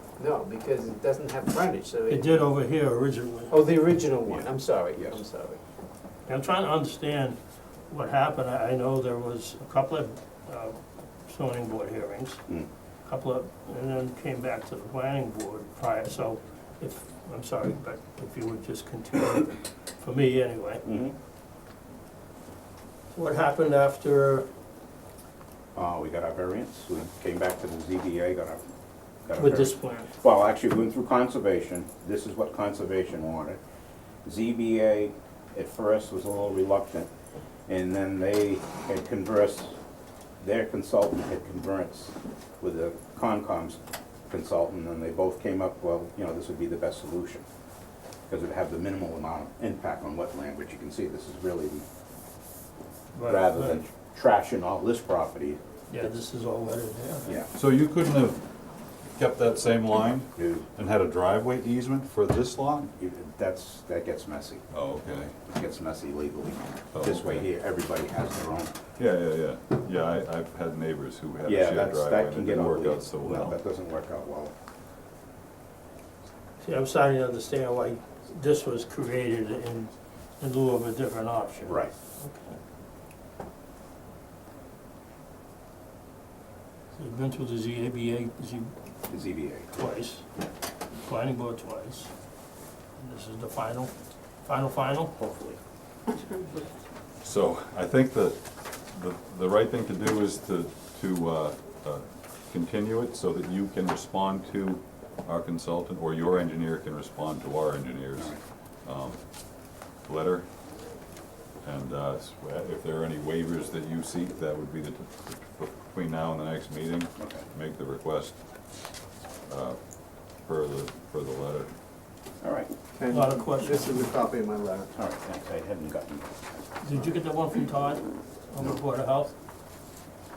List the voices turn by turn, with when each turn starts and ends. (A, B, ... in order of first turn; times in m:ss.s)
0:00.2-0:02.5 A
0:02.1-0:03.5 B
0:03.5-0:05.6 A
0:04.3-0:05.2 C
0:06.3-0:07.4 B
0:07.9-0:12.4 B
0:13.1-0:20.8 B
0:20.8-0:21.2 C
0:23.1-0:24.5 B
0:25.8-0:28.6 C
0:29.2-0:33.6 C
0:29.4-0:30.1 B
0:34.2-0:37.1 C
0:37.7-0:39.8 C
0:40.4-0:47.4 C
0:48.3-0:51.8 C
0:53.1-0:53.8 B
0:53.2-0:56.1 C
0:55.9-0:57.4 B
0:57.5-0:58.4 D
0:59.2-1:02.9 D
1:00.4-1:00.7 C
1:03.0-1:04.7 C
1:04.7-1:05.4 D
1:05.5-1:08.8 C
1:06.9-1:07.5 D
1:09.0-1:13.6 D
1:11.4-1:14.5 C
1:16.6-1:22.6 B
1:21.6-1:21.9 C
1:26.9-1:28.7 B
1:29.1-1:29.8 C
1:29.7-1:30.3 B
1:31.0-1:32.1 B
1:33.0-1:33.9 B
1:34.5-1:35.2 B
1:35.2-1:35.6 C
1:37.2-1:49.2 D
1:50.0-1:50.5 D
1:51.6-1:58.4 D
1:57.2-1:57.5 C
1:59.5-2:01.7 D
2:02.4-2:02.7 C
2:03.0-2:04.9 A
2:03.1-2:04.1 B
2:04.9-2:06.3 C
2:06.8-2:09.3 B